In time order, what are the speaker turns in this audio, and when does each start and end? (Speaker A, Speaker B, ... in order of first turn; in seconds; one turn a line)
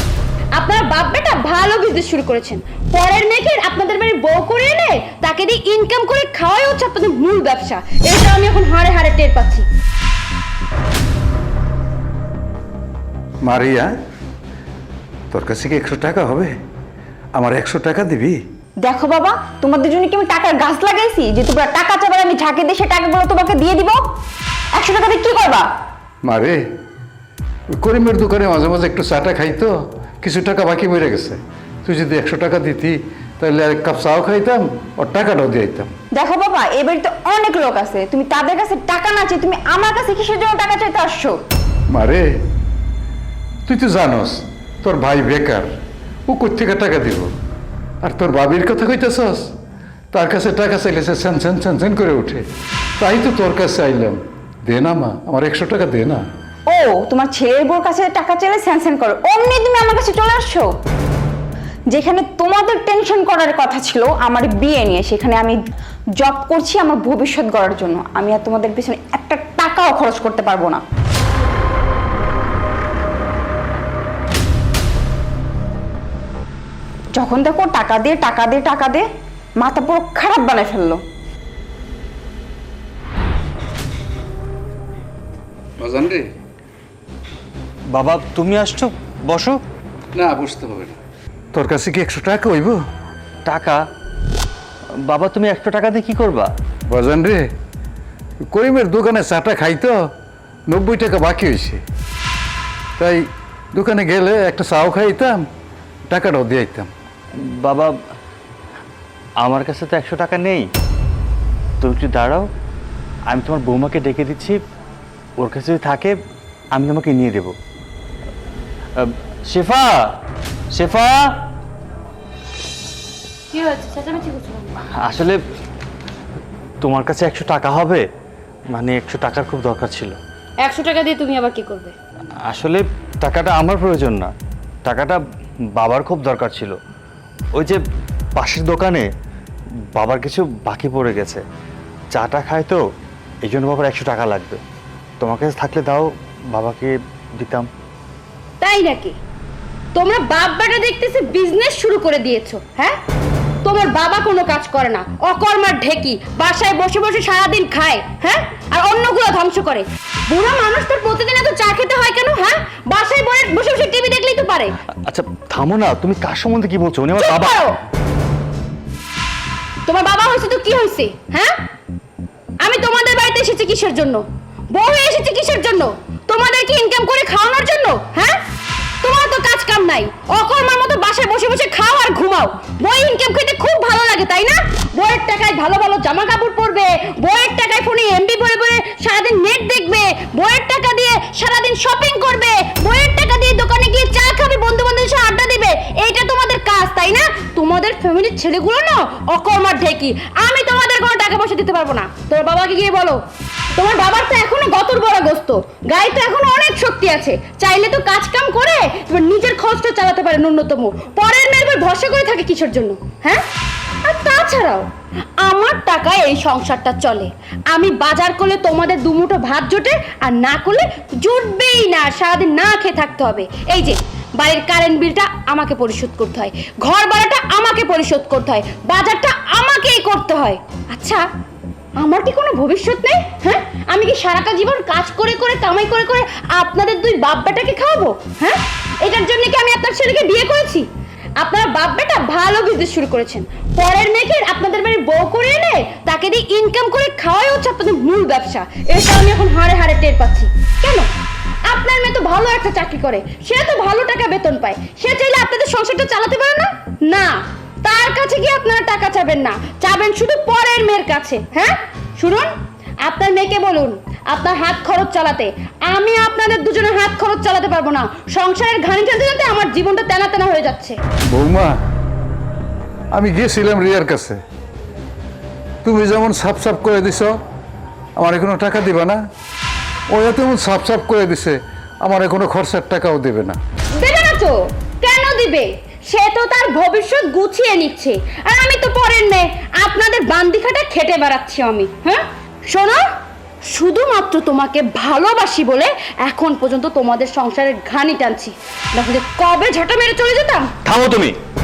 Speaker A: 0.6-9.7
Speaker B: 13.5-13.9
Speaker B: 15.3-16.5
Speaker B: 17.4-18.4
Speaker C: 18.8-24.1
Speaker C: 24.8-25.7
Speaker B: 26.3-26.6
Speaker B: 27.7-35.9
Speaker C: 36.1-41.4
Speaker B: 41.9-42.2
Speaker B: 43.7-45.7
Speaker B: 46.3-47.3
Speaker B: 48.0-49.5
Speaker B: 50.1-52.4
Speaker B: 53.0-56.2
Speaker C: 56.7-60.7
Speaker C: 61.9-65.6
Speaker C: 66.2-70.8
Speaker C: 77.2-79.1
Speaker C: 79.6-81.0
Speaker B: 85.8-86.2
Speaker D: 87.9-89.6
Speaker B: 90.2-91.0
Speaker B: 91.5-92.8
Speaker D: 93.5-93.8
Speaker D: 95.0-96.5
Speaker B: 96.9-97.5
Speaker B: 98.5-100.0
Speaker B: 100.7-101.8
Speaker B: 103.8-105.4
Speaker B: 106.1-106.9
Speaker D: 107.4-107.9
Speaker D: 109.4-110.6
Speaker D: 111.8-112.5
Speaker D: 113.3-114.6
Speaker D: 115.4-116.2
Speaker D: 116.7-117.5
Speaker D: 119.0-120.1
Speaker D: 120.7-121.2
Speaker A: 123.5-124.8
Speaker D: 125.0-125.4
Speaker D: 126.8-128.0
Speaker D: 128.7-130.2
Speaker A: 130.6-131.9
Speaker D: 132.5-134.3
Speaker D: 134.8-135.2
Speaker D: 135.8-136.8
Speaker D: 138.4-139.1
Speaker D: 140.0-141.4
Speaker D: 142.1-142.8
Speaker D: 143.4-144.6
Speaker D: 145.2-147.7
Speaker A: 148.6-149.2
Speaker A: 149.9-153.0
Speaker A: 153.6-164.7
Speaker D: 165.1-167.6
Speaker A: 167.2-167.8
Speaker A: 169.9-171.6
Speaker A: 172.6-178.4
Speaker A: 179.0-203.2
Speaker A: 203.8-213.4
Speaker A: 214.1-214.9
Speaker A: 215.4-231.2
Speaker A: 232.0-251.1
Speaker A: 251.7-271.0
Speaker B: 271.3-271.8
Speaker B: 273.1-274.4
Speaker B: 275.8-277.3
Speaker B: 278.2-279.2
Speaker B: 280.1-283.6
Speaker A: 284.0-293.1
Speaker A: 293.7-300.7
Speaker D: 300.9-301.4